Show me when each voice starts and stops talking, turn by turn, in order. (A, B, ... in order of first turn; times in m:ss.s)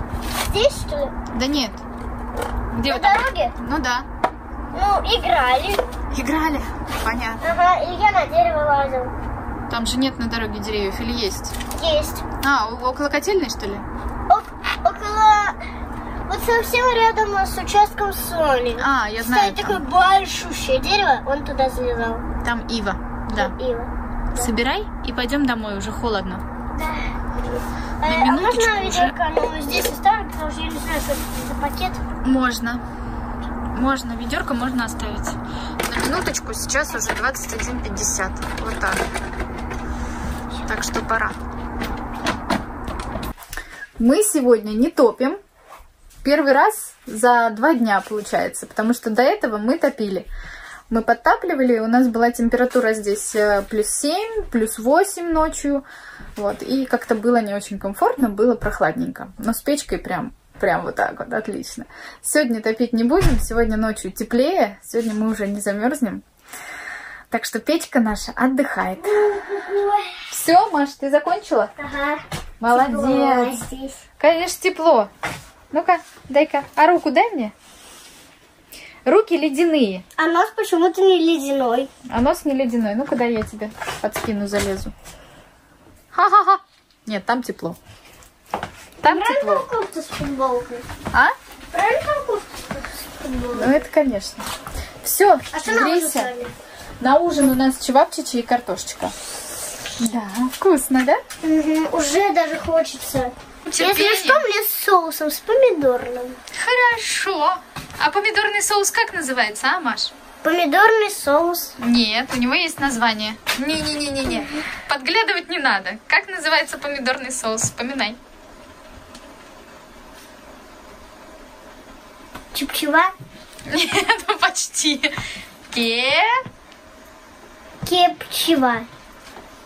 0:00.4-0:01.1 A
0:01.3-0:01.8 B
0:02.7-0:04.1 B
0:02.8-0:03.5 A
0:04.7-0:05.8 A
0:06.1-0:07.5 B
0:07.4-0:09.1 A
0:09.7-0:11.5 B
0:11.8-0:12.2 A
0:12.4-0:13.9 B
0:14.3-0:15.6 A
0:16.3-0:22.2 A
0:18.8-0:19.8 B
0:22.4-0:23.5 B
0:23.3-0:24.5 A
0:24.3-0:26.4 B
0:26.7-0:27.1 A
0:28.0-0:32.0 A
0:28.0-0:29.2 B
0:32.2-0:32.8 B
0:33.7-0:39.0 B
0:40.6-0:41.4 B
0:44.0-0:45.4 B
0:46.2-0:50.3 B
0:50.9-0:55.8 B
0:56.4-1:06.2 B
1:07.3-1:09.2 B
1:09.1-1:10.1 A
1:10.3-1:11.7 B
1:11.8-1:14.0 A
1:12.6-1:13.6 B
1:14.2-1:15.1 B
1:15.7-1:17.5 B
1:19.0-1:20.0 B
1:20.2-1:21.9 A
1:22.1-1:24.9 B
1:26.1-1:27.8 B
1:29.0-1:29.6 B
1:29.0-1:30.8 A
1:31.7-1:33.8 A
1:33.5-1:34.5 B
1:35.0-1:36.3 B
1:35.5-1:36.5 A
1:37.0-1:39.1 B
1:40.0-1:41.2 B
1:41.4-1:46.4 A
1:43.7-1:44.4 B
1:46.5-1:50.1 B
1:50.4-1:51.8 A
1:51.8-1:58.2 B
2:02.5-2:03.1 A
2:03.7-2:05.1 B
2:05.7-2:06.4 B
2:07.8-2:08.9 A